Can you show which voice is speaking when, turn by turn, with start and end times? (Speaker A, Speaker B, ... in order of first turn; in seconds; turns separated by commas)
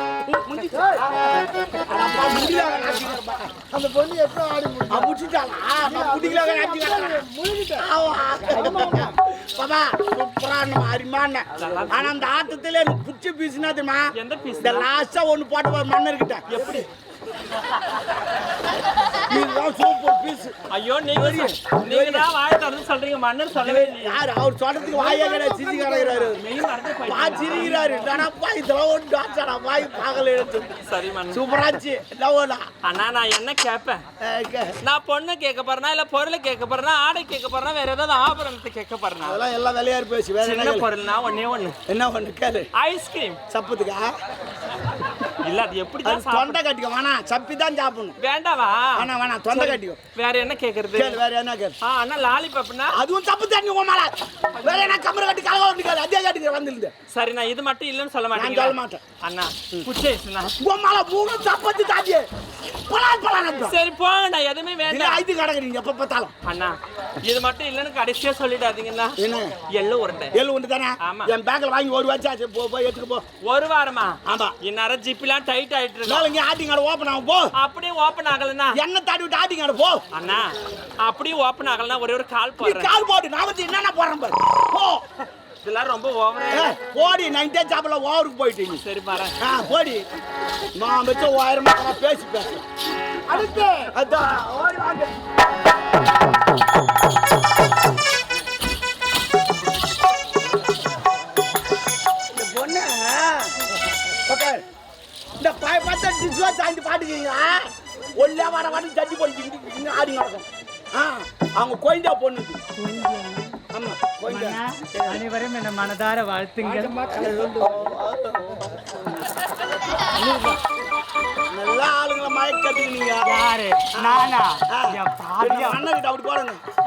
Speaker A: 0.2-1.1, Speaker B: 0.7-1.0, Speaker A: 1.9-3.5, Speaker B: 3.7-5.1, Speaker A: 4.9-7.2, Speaker B: 5.8-7.9, Speaker A: 7.8-16.4, Speaker B: 8.4-9.1, Speaker C: 11.6-12.1, Speaker C: 14.1-14.9, Speaker C: 16.5-16.9, Speaker A: 19.3-20.6, Speaker C: 20.7-24.2, Speaker A: 21.1-22.3, Speaker A: 23.5-26.4, Speaker B: 24.9-26.3, Speaker C: 26.3-28.1, Speaker A: 27.0-30.7, Speaker C: 30.9-31.4, Speaker A: 31.3-32.6, Speaker C: 32.8-34.0, Speaker A: 34.2-34.7, Speaker C: 34.8-39.4, Speaker A: 39.2-40.9, Speaker C: 40.4-41.8, Speaker A: 41.9-42.7, Speaker C: 42.8-43.4, Speaker A: 43.5-44.1, Speaker C: 45.4-46.6, Speaker A: 46.0-48.1, Speaker C: 48.2-51.2, Speaker A: 49.0-50.0, Speaker A: 50.9-51.8, Speaker C: 51.8-53.0, Speaker A: 52.9-56.9, Speaker C: 54.6-55.0, Speaker C: 57.1-60.5, Speaker A: 58.3-59.0, Speaker A: 60.6-62.2, Speaker A: 62.9-63.8, Speaker C: 63.5-65.3, Speaker A: 64.9-66.3, Speaker C: 66.5-69.2, Speaker A: 69.2-69.5, Speaker C: 69.7-70.3, Speaker A: 70.3-73.2, Speaker C: 71.0-71.3, Speaker C: 73.4-76.3, Speaker A: 74.2-74.5, Speaker A: 76.0-77.5, Speaker C: 77.6-78.8, Speaker A: 78.7-80.0, Speaker C: 80.1-82.9, Speaker A: 82.6-85.0, Speaker C: 85.6-86.8, Speaker A: 86.5-88.8, Speaker C: 88.8-89.3, Speaker A: 89.4-90.0, Speaker A: 90.8-92.6, Speaker B: 93.3-93.9, Speaker A: 93.9-95.2, Speaker A: 102.3-103.5, Speaker A: 104.2-104.6, Speaker A: 105.4-112.6, Speaker D: 112.8-113.6, Speaker A: 113.7-115.2, Speaker D: 114.3-117.3, Speaker B: 116.9-117.7, Speaker A: 117.2-118.6, Speaker B: 120.2-120.6, Speaker A: 121.5-123.2, Speaker D: 123.2-125.8, Speaker A: 123.9-126.6